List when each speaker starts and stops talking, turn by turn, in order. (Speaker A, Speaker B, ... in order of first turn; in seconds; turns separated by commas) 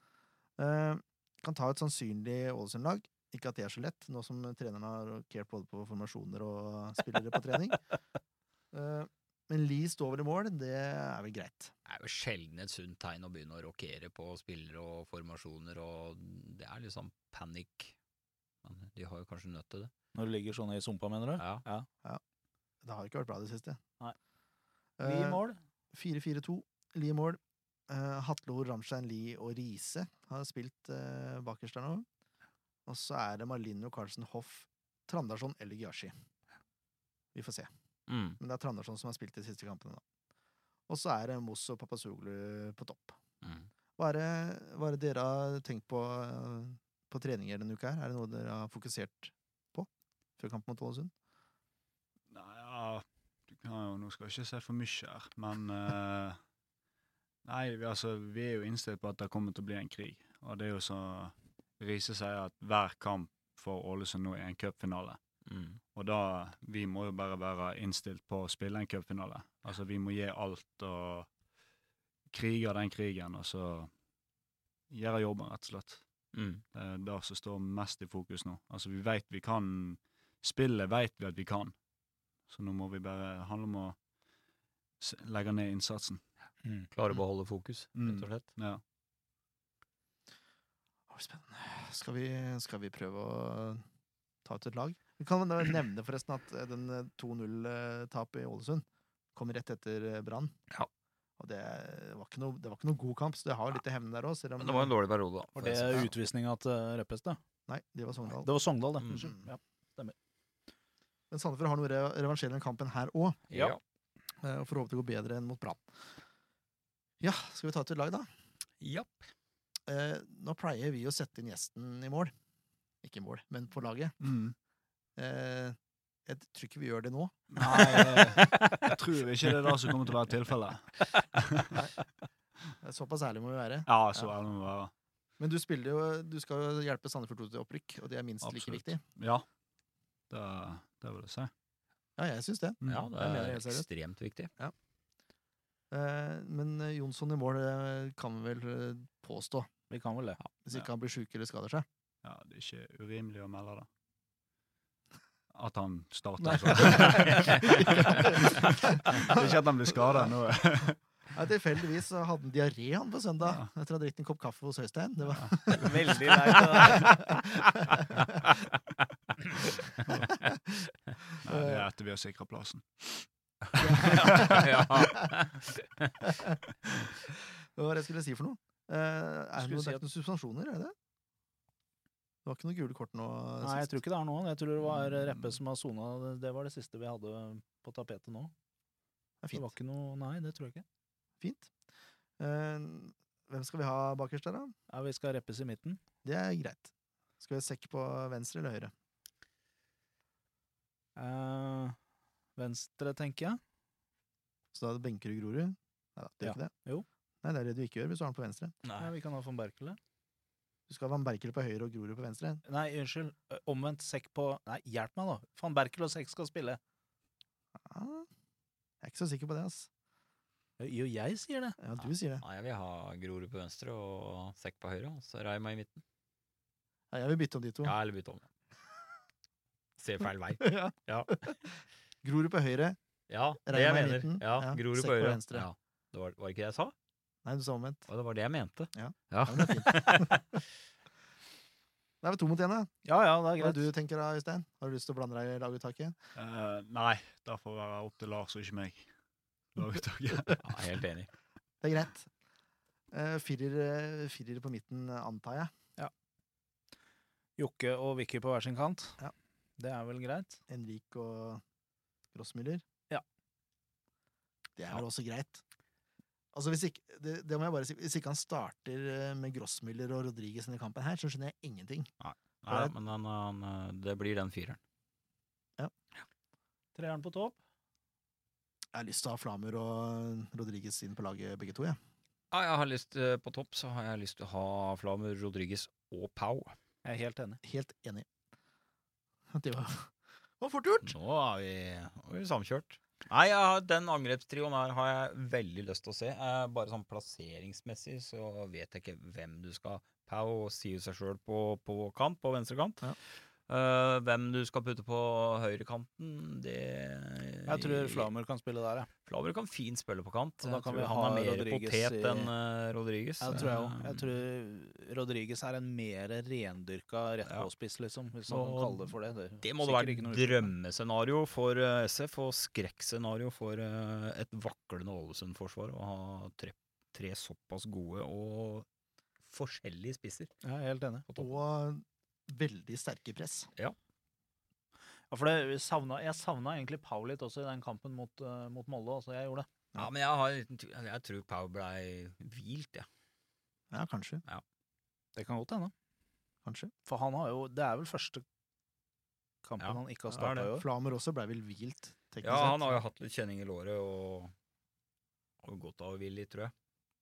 Speaker A: 0.6-7.8, Speaker A: 8.7-11.7, Speaker B: 11.9-17.9, Speaker B: 18.6-19.9, Speaker C: 20.1-21.9, Speaker B: 21.4-21.6, Speaker A: 22.8-23.8, Speaker A: 25.0-25.4, Speaker C: 25.0-25.6, Speaker A: 25.9-32.1, Speaker A: 32.9-36.1, Speaker A: 37.4-37.7, Speaker B: 38.1-38.4, Speaker A: 38.4-40.0, Speaker A: 40.9-43.2, Speaker B: 43.4-43.7, Speaker A: 44.0-51.1, Speaker D: 52.3-56.4, Speaker D: 57.5-65.2, Speaker B: 65.5-65.8, Speaker D: 65.9-71.3, Speaker D: 72.3-73.9, Speaker D: 74.9-76.0, Speaker B: 76.3-76.6, Speaker D: 76.7-81.7, Speaker D: 82.5-84.0, Speaker D: 85.0-86.2, Speaker B: 86.9-88.5, Speaker D: 88.0-88.8, Speaker A: 91.1-93.8, Speaker A: 94.5-100.6, Speaker A: 101.4-104.9, Speaker B: 104.6-106.1, Speaker C: 105.6-107.4, Speaker A: 107.7-108.5, Speaker C: 108.4-110.2, Speaker B: 109.0-109.3, Speaker A: 111.3-113.4, Speaker B: 113.5-113.8, Speaker A: 114.4-115.8, Speaker A: 117.2-118.3, Speaker B: 118.8-119.2, Speaker A: 119.9-122.3, Speaker A: 123.0-124.2, Speaker D: 124.2-124.5, Speaker A: 125.2-128.0, Speaker D: 127.5-131.8, Speaker C: 127.6-128.5, Speaker B: 128.0-128.9, Speaker A: 132.8-134.3, Speaker D: 133.9-134.9, Speaker A: 135.4-139.0, Speaker D: 138.4-139.5, Speaker D: 140.3-141.5, Speaker A: 142.2-143.9, Speaker D: 142.8-143.1, Speaker B: 142.9-144.5, Speaker A: 145.9-149.7, Speaker C: 149.9-150.4, Speaker A: 150.6-151.9, Speaker D: 152.2-153.9, Speaker D: 155.5-161.0, Speaker A: 156.4-159.6, Speaker B: 157.1-157.6, Speaker A: 161.3-168.4, Speaker D: 165.3-166.0, Speaker C: 165.8-167.2, Speaker D: 170.1-170.4, Speaker A: 170.3-170.8, Speaker A: 171.4-171.8, Speaker D: 171.4-173.3, Speaker A: 173.8-175.2, Speaker D: 173.9-174.9, Speaker B: 174.1-176.1, Speaker A: 176.2-176.6, Speaker A: 177.3-180.9, Speaker C: 179.6-180.0, Speaker A: 182.4-183.9, Speaker C: 183.6-188.5, Speaker D: 185.2-185.6, Speaker A: 189.4-189.7, Speaker C: 189.5-190.8, Speaker A: 191.4-191.7, Speaker A: 192.4-194.7, Speaker C: 194.9-196.0, Speaker A: 196.2-198.9, Speaker C: 201.2-202.0, Speaker C: 202.6-203.6, Speaker A: 204.7-206.7, Speaker C: 206.4-207.1, Speaker A: 207.4-208.8, Speaker B: 208.8-209.1, Speaker C: 209.0-210.0, Speaker A: 210.9-212.6, Speaker C: 212.7-216.8, Speaker A: 217.9-218.3, Speaker A: 219.0-219.9, Speaker C: 220.8-221.8, Speaker A: 221.8-222.4, Speaker B: 222.1-226.0, Speaker A: 227.1-227.9, Speaker B: 227.8-228.4, Speaker B: 230.0-231.4, Speaker A: 230.6-231.7, Speaker A: 232.2-233.0, Speaker B: 233.3-236.9, Speaker A: 233.7-235.7, Speaker A: 237.4-238.1, Speaker B: 238.1-240.4, Speaker A: 238.9-240.4, Speaker A: 242.2-243.0, Speaker C: 243.1-243.9, Speaker A: 243.6-246.2, Speaker D: 246.3-249.1, Speaker D: 249.8-250.6, Speaker B: 250.6-251.3, Speaker A: 251.8-252.3, Speaker A: 253.1-255.8, Speaker C: 257.6-259.2, Speaker C: 259.8-260.6, Speaker A: 260.7-261.6, Speaker A: 262.3-262.8, Speaker A: 264.8-265.6, Speaker A: 266.5-272.1, Speaker B: 272.2-274.8, Speaker C: 276.9-277.6, Speaker A: 278.9-282.0, Speaker B: 282.5-286.7, Speaker C: 287.0-287.6, Speaker A: 287.6-288.3, Speaker A: 289.5-291.2, Speaker B: 291.0-303.1, Speaker B: 303.7-308.3, Speaker C: 307.7-309.1, Speaker B: 309.3-314.3, Speaker C: 310.6-312.5, Speaker C: 313.4-320.7, Speaker B: 318.5-328.9, Speaker B: 329.5-330.6, Speaker C: 330.6-331.3, Speaker B: 331.3-331.6, Speaker A: 331.4-333.7, Speaker C: 335.3-339.7, Speaker B: 340.0-343.1, Speaker A: 343.9-344.4, Speaker C: 345.4-345.9, Speaker A: 346.6-346.9, Speaker C: 347.1-348.4, Speaker C: 349.6-350.9, Speaker B: 349.8-350.7, Speaker A: 350.7-353.0, Speaker B: 352.4-354.5, Speaker B: 355.6-356.7